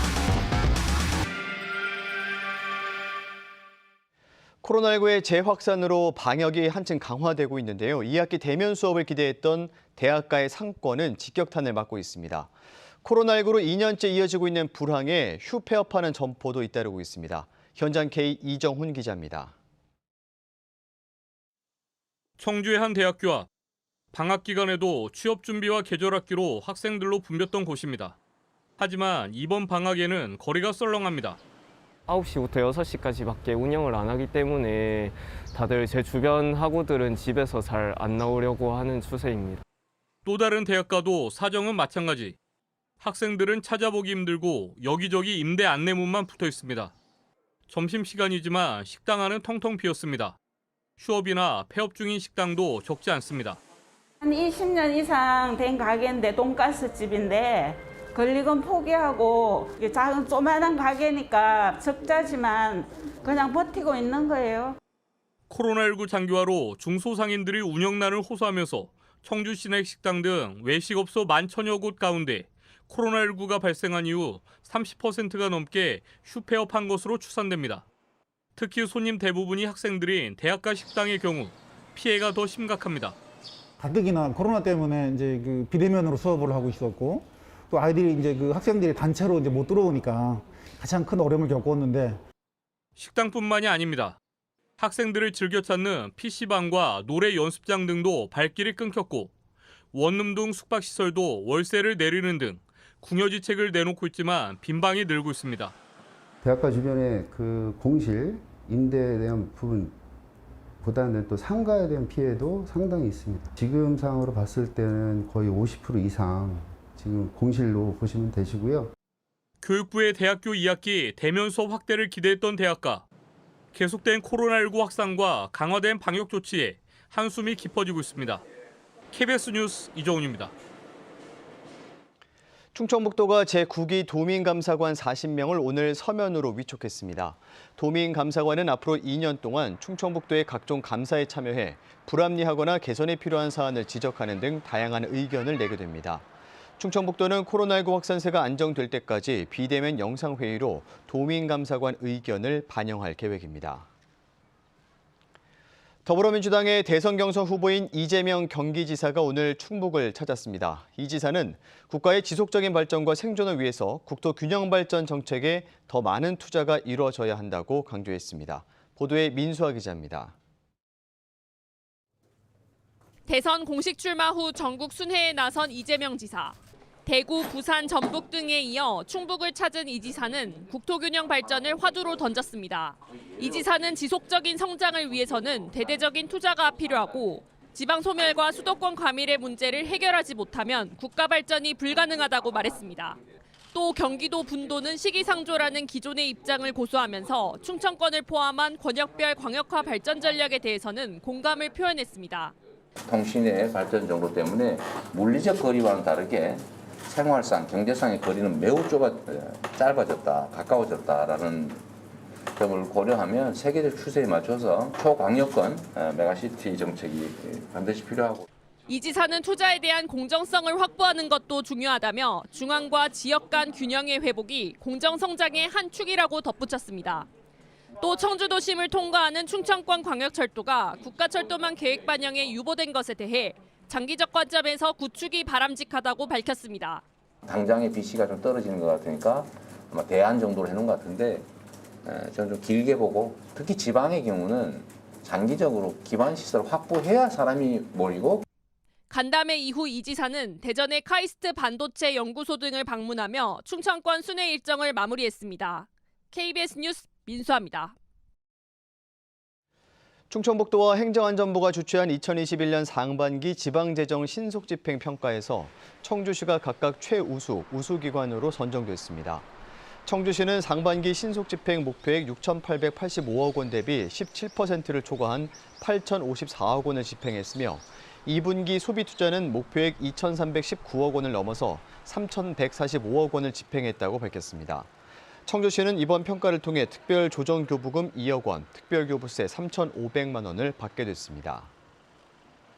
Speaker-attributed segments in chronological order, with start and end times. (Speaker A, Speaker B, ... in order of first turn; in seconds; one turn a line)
Speaker A: 4.6-12.5
Speaker A: 13.0-19.5
Speaker B: 22.4-23.5
Speaker B: 24.1-28.1
Speaker B: 28.8-31.4
Speaker C: 32.1-39.6
Speaker B: 40.2-42.4
Speaker B: 43.0-46.9
Speaker B: 47.7-50.4
Speaker B: 51.0-53.6
Speaker D: 54.2-64.8
Speaker B: 65.5-77.8
Speaker B: 78.5-83.2
Speaker E: 83.8-92.2
Speaker B: 93.0-94.2
Speaker B: 94.8-99.3
Speaker B: 99.9-105.7
Speaker F: 106.4-109.9
Speaker F: 110.8-118.9
Speaker B: 119.6-123.0
Speaker B: 123.7-128.4
Speaker B: 129.1-130.5
Speaker A: 132.7-146.2
Speaker A: 146.8-153.9
Speaker A: 156.1-170.3
Speaker G: 173.3-193.2
Speaker G: 193.7-202.5
Speaker H: 203.1-211.8
Speaker H: 212.6-218.4
Speaker G: 218.9-227.3
Speaker G: 228.0-237.0
Speaker H: 237.4-241.5
Speaker H: 242.0-248.4
Speaker G: 249.1-257.9
Speaker A: 260.3-269.4
Speaker A: 270.1-284.9
Speaker A: 285.4-291.7